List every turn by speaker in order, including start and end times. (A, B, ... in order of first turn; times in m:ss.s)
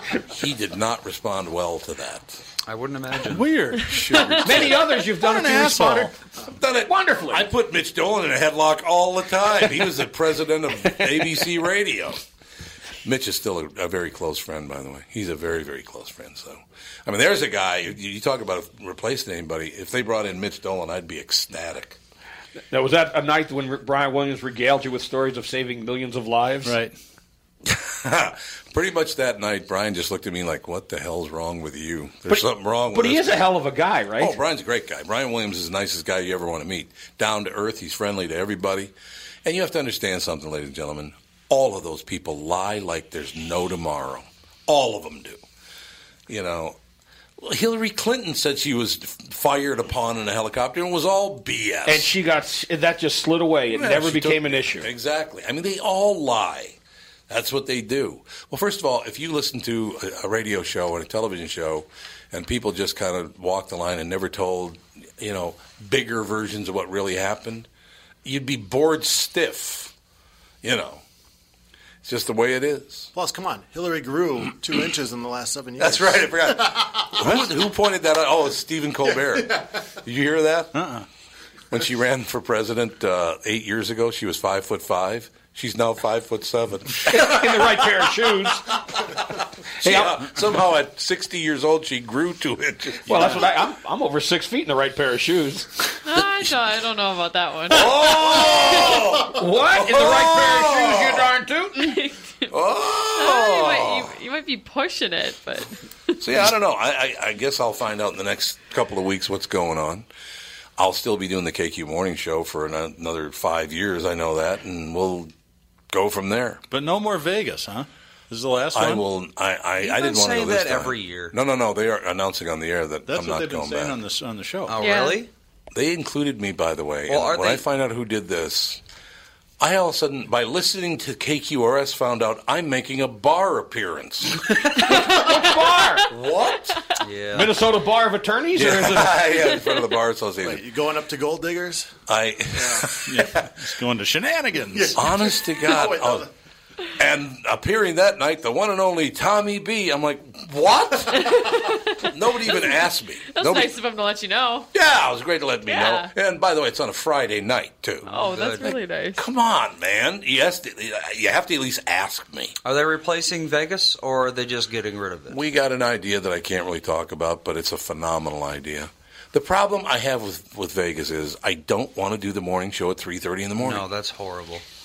0:00.3-0:02.4 A
0:02.6-0:03.4 B
0:03.3-0:06.1 C
0:03.9-0:04.9 A
0:04.0-0:04.4 D
0:04.4-0:06.1 E
0:06.5-0:12.2 A
0:06.8-0:07.5 E
0:13.0-0:22.0 A
0:22.7-0:26.8 E
0:26.6-0:27.0 C
0:27.7-0:33.5 A
0:32.3-0:34.4 E
0:34.2-0:38.9 A
0:39.4-0:45.4 A
0:46.3-0:46.8 A
0:47.4-0:52.1 A
0:51.9-0:54.9 E
0:53.7-0:56.8 A
0:57.3-1:07.7 A
1:08.2-1:09.9 A
1:10.6-1:11.0 A
1:12.0-1:13.1 A
1:13.2-1:17.4 F
1:15.8-1:20.8 A
1:19.1-1:19.7 F
1:20.7-1:21.0 C
1:21.7-1:28.1 A
1:27.1-1:28.7 E
1:29.8-1:33.6 A
1:29.8-1:30.2 E
1:33.1-1:35.8 E
1:36.0-1:38.0 D
1:37.7-1:41.3 A
1:37.9-1:42.0 E
1:41.8-1:42.6 D
1:42.5-1:44.1 A
1:43.2-1:46.2 D
1:46.2-1:50.1 A
1:50.8-1:55.3 A
1:55.9-1:56.6 A
1:56.7-1:59.1 C
1:58.7-2:04.0 A
1:59.8-2:01.4 B
2:03.1-2:04.8 C
2:04.7-2:05.3 B
2:04.8-2:05.2 D
2:05.7-2:08.8 A
2:07.1-2:07.6 B
2:09.6-2:14.5 A
2:14.9-2:16.1 E
2:16.1-2:16.8 A
2:17.0-2:17.6 B
2:17.3-2:19.4 E
2:18.6-2:20.7 A
2:20.4-2:21.9 F
2:22.1-2:23.5 A
2:22.5-2:22.9 F
2:23.1-2:25.0 C
2:24.7-2:26.3 F
2:24.9-2:26.3 A
2:27.0-2:33.7 A
2:31.1-2:32.6 D
2:33.3-2:34.7 D
2:34.7-2:38.1 A
2:35.7-2:36.1 D
2:38.0-2:38.8 B
2:38.1-2:39.2 D
2:39.2-2:42.6 A
2:42.6-2:45.4 B
2:45.3-2:53.9 A
2:53.6-2:54.6 B